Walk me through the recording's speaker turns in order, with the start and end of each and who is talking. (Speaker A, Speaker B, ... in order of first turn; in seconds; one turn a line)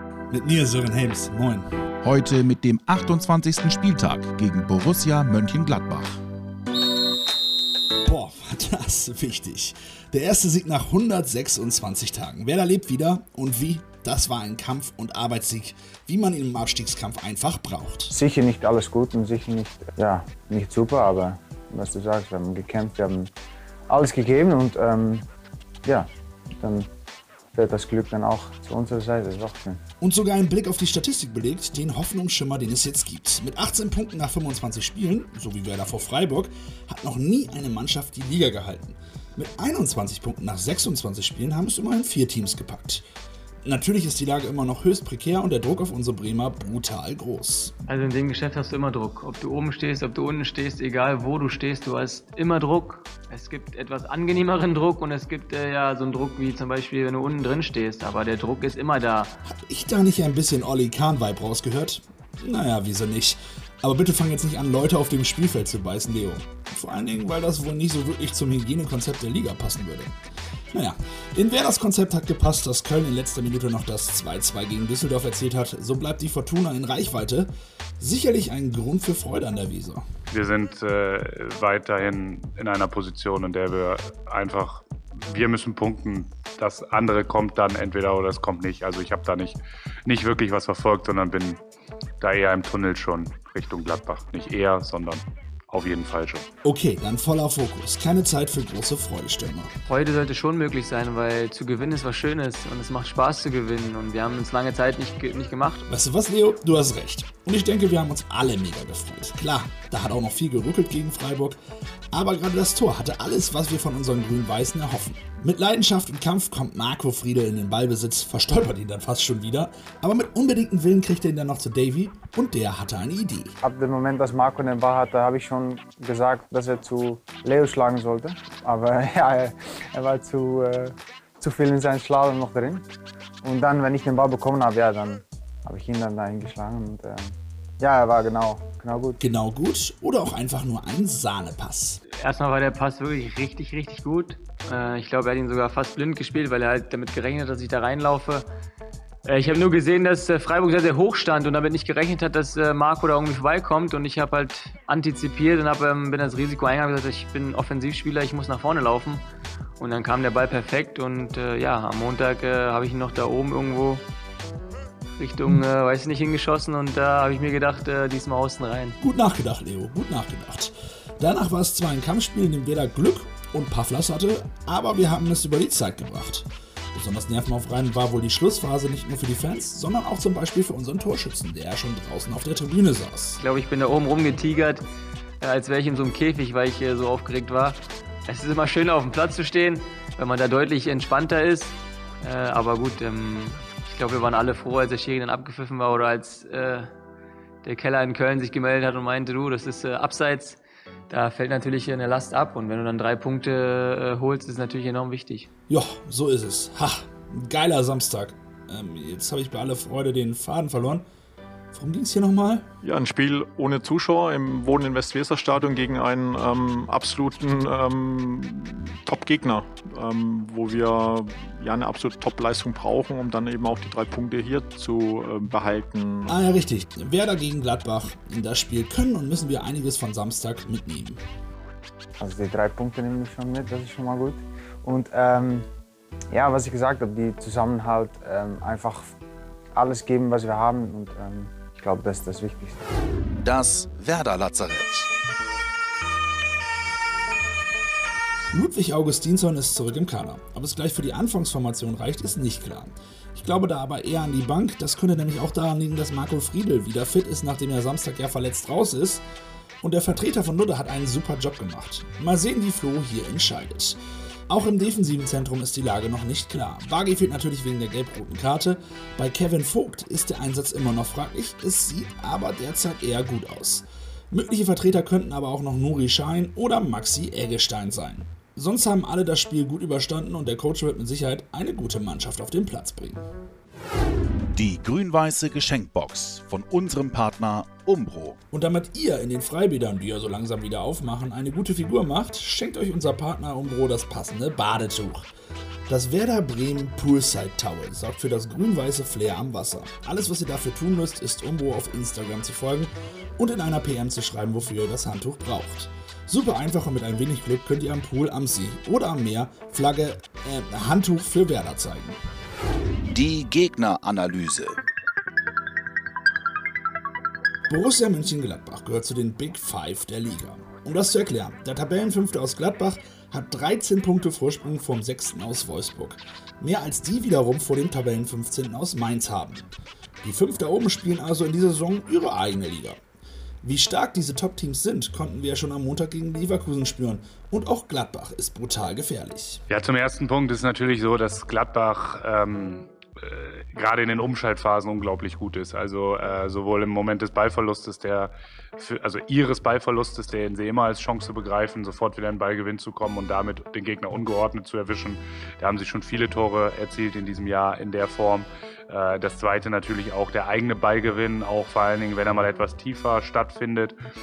Speaker A: 0.3-1.7
Speaker B: 2.0-6.2
Speaker A: 8.0-18.1
Speaker C: 18.1-23.3
Speaker C: 23.9-25.2
Speaker C: 26.6-26.9
Speaker C: 27.5-29.8
Speaker A: 30.0-43.0
Speaker A: 43.7-47.7
Speaker D: 47.9-59.3
Speaker A: 59.5-70.1
Speaker A: 70.7-80.0
Speaker E: 80.3-91.6
Speaker E: 92.2-96.4
Speaker A: 96.6-99.7
Speaker D: 99.8-105.8
Speaker A: 105.9-111.6
Speaker A: 112.1-123.5
Speaker C: 123.6-132.8
Speaker C: 133.4-139.2
Speaker A: 139.2-142.0
Speaker D: 142.2-148.4
Speaker D: 149.2-159.2
Speaker D: 159.8-164.0
Speaker D: 165.2-169.0
Speaker A: 169.0-183.4
Speaker D: 183.4-184.8
Speaker D: 185.4-196.9
Speaker D: 197.6-200.6
Speaker D: 201.1-205.5
Speaker A: 205.7-211.1
Speaker A: 211.7-212.7
Speaker F: 212.8-226.3
Speaker A: 226.3-231.2
Speaker C: 232.2-235.7
Speaker C: 236.3-239.1
Speaker C: 239.8-242.9
Speaker B: 243.4-245.1
Speaker A: 248.5-259.2
Speaker A: 259.8-283.2
Speaker B: 284.5-288.4
Speaker A: 288.5-295.3
Speaker A: 295.9-312.2
Speaker B: 313.1-314.8
Speaker A: 317.7-333.0
Speaker A: 333.6-339.6
Speaker E: 339.7-363.9